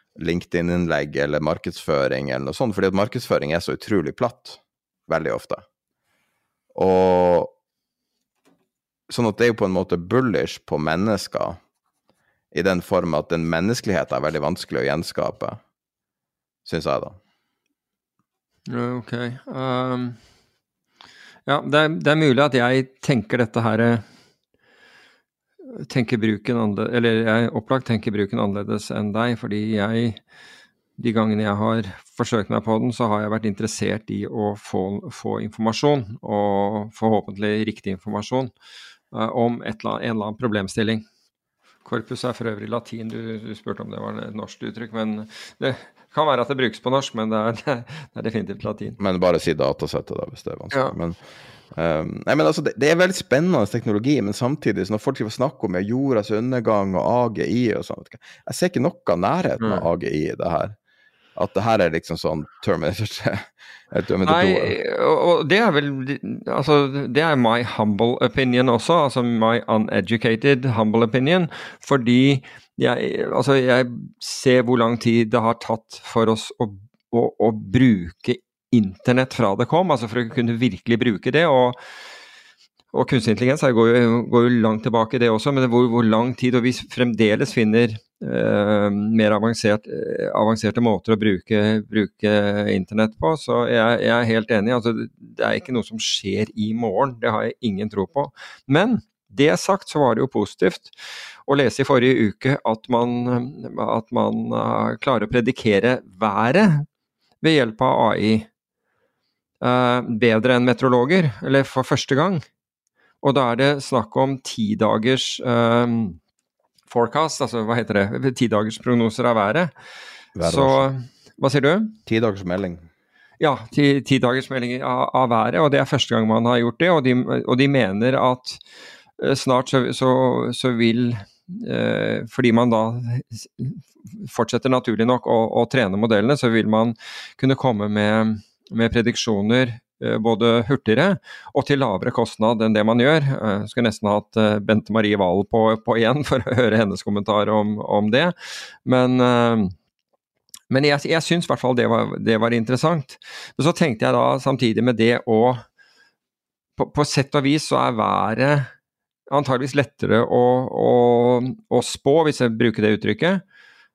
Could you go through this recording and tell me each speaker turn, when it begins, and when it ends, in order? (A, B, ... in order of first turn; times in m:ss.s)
0:00.2-0:05.6 A
0:06.7-0:07.5 A
0:09.1-0:11.6 A
0:12.5-0:15.6 A
0:16.6-0:17.2 A
0:18.7-0:20.2 B
0:21.5-0:24.0 B
0:25.7-0:30.2 B
0:31.0-0:38.5 B
0:39.1-0:41.0 B
0:41.8-0:49.0 B
0:49.0-0:51.2 A
0:50.7-0:51.0 B
0:51.7-1:00.8 A
0:59.6-0:59.9 B
1:01.4-1:04.8 A
1:04.2-1:21.8 B
1:22.9-1:40.9 B
1:41.5-1:46.9 B
1:47.4-1:48.5 B
1:49.6-1:52.4 B
1:53.2-1:56.2 B
1:56.9-1:59.7 B
2:00.4-2:00.9 A
2:00.4-2:02.0 B
2:02.1-2:02.9 A
2:03.4-2:08.6 B
2:09.2-2:29.7 B
2:30.7-2:35.6 B
2:36.8-2:38.7 B
2:39.3-2:43.4 B